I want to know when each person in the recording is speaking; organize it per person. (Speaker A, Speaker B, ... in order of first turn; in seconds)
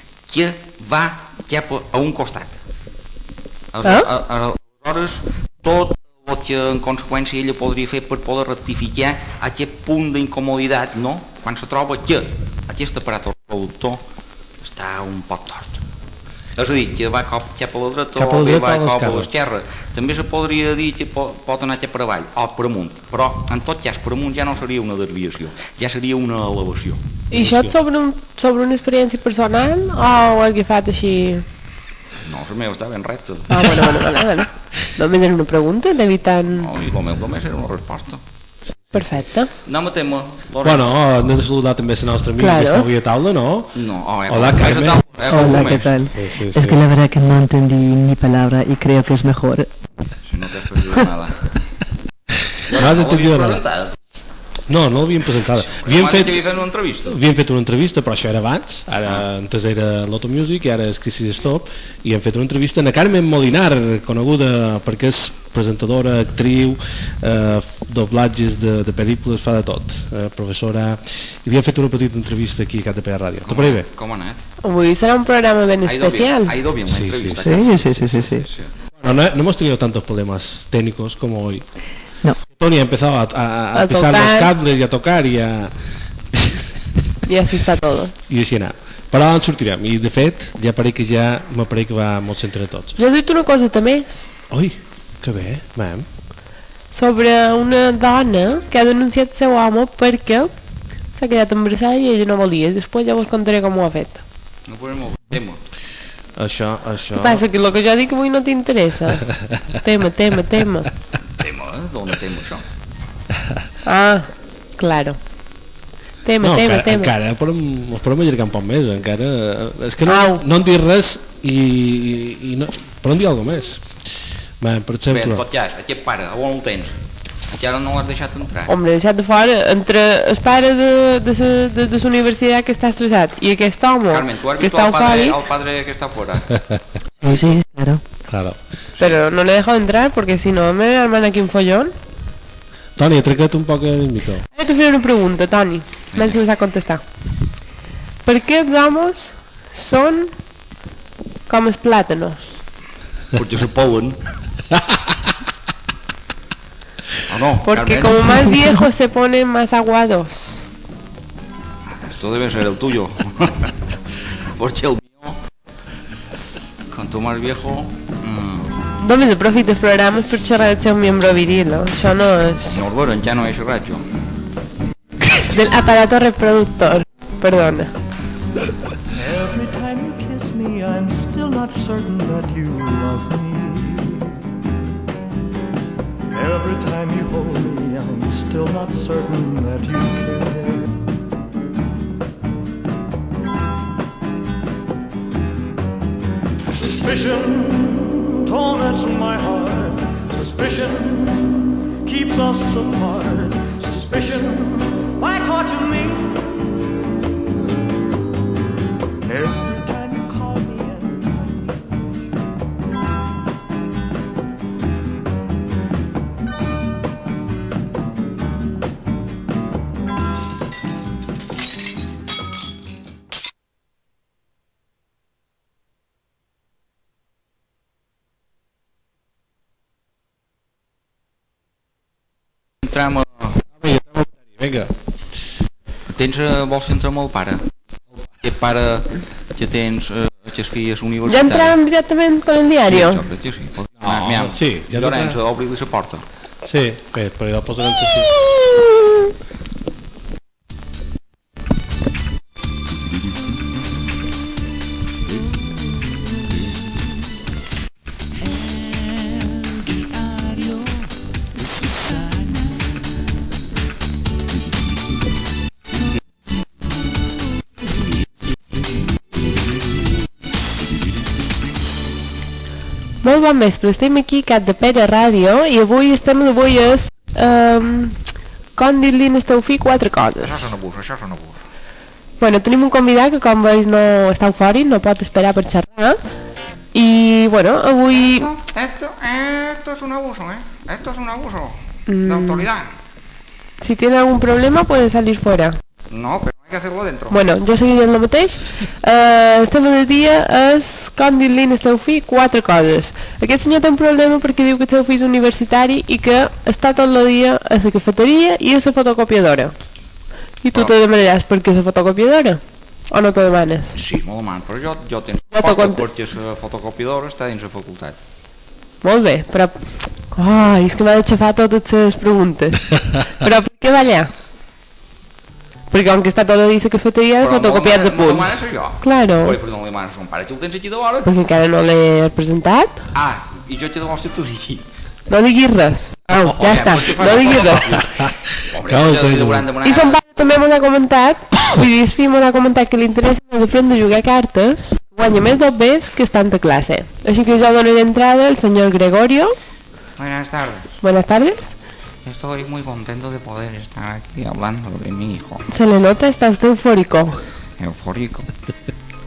Speaker A: 0.3-2.6, 3.7-14.0, 14.6-15.8, 16.6-27.0, 32.2-34.0, 36.5-38.2, 39.6-40.9, 43.8-45.9, 50.3-51.5, 52.7-54.0, 55.6-57.2, 73.4-74.4, 75.8-78.7, 104.7-105.6, 111.4-112.6, 125.1-127.0, 127.5-128.7, 134.1-136.5, 146.1-146.4, 153.3-154.2, 157.2-158.5, 161.9-163.7, 164.4-165.4, 166.9-168.7, 172.7-174.0, 232.8-233.6, 236.1-237.7, 238.4-241.8, 242.8-246.2, 280.4-281.6, 288.1-292.9, 296.1-297.4, 313.9-318.2, 327.4-331.3, 333.1-334.8, 336.6-340.2, 350.2-350.9, 352.2-355.6, 357.8-358.5
Speaker B: 18.1-19.3, 27.3-27.7, 38.7-39.2, 40.6-46.8, 52.6-53.6, 54.7-56.4, 57.1-73.9, 76.8-77.6, 78.9-81.6, 82.4-85.7, 86.3-86.7, 88.3-93.0, 94.5-96.0, 106.4-107.4, 116.4-123.9, 124.6-125.4, 136.7-137.6, 138.3-138.6, 143.0-144.4, 233.8-234.9, 244.0-245.4, 246.6-248.3, 338.0-339.6
Speaker C: 27.3-31.4, 33.5-36.7, 38.9-39.5, 42.4-42.9, 74.6-76.5, 83.7-84.5, 87.2-88.1, 93.0-94.2, 96.9-100.5, 101.1-104.2, 107.1-109.2, 109.8-110.9, 113.8-115.2, 116.2-117.1, 120.0-120.4, 128.7-135.4, 139.0-141.9, 144.5-147.0, 148.2-150.3, 151.5-152.6, 157.6-160.6, 169.0-172.8, 175.4-177.9, 241.3-243.2, 248.8-249.1, 273.2-278.2, 278.8-280.7, 282.4-286.2, 286.9-288.5, 292.1-292.7, 293.8-295.8, 297.3-309.7, 310.6-314.0, 315.5-316.0, 319.0-324.3, 325.9-329.6, 331.2-333.0, 335.3-337.9, 339.8-349.6, 351.0-351.7, 355.7-357.4
Speaker D: 45.3-49.7, 77.4-78.5, 137.2-138.0
Speaker E: 179.1-184.4, 186.3-191.0, 196.8-206.6, 209.2-212.3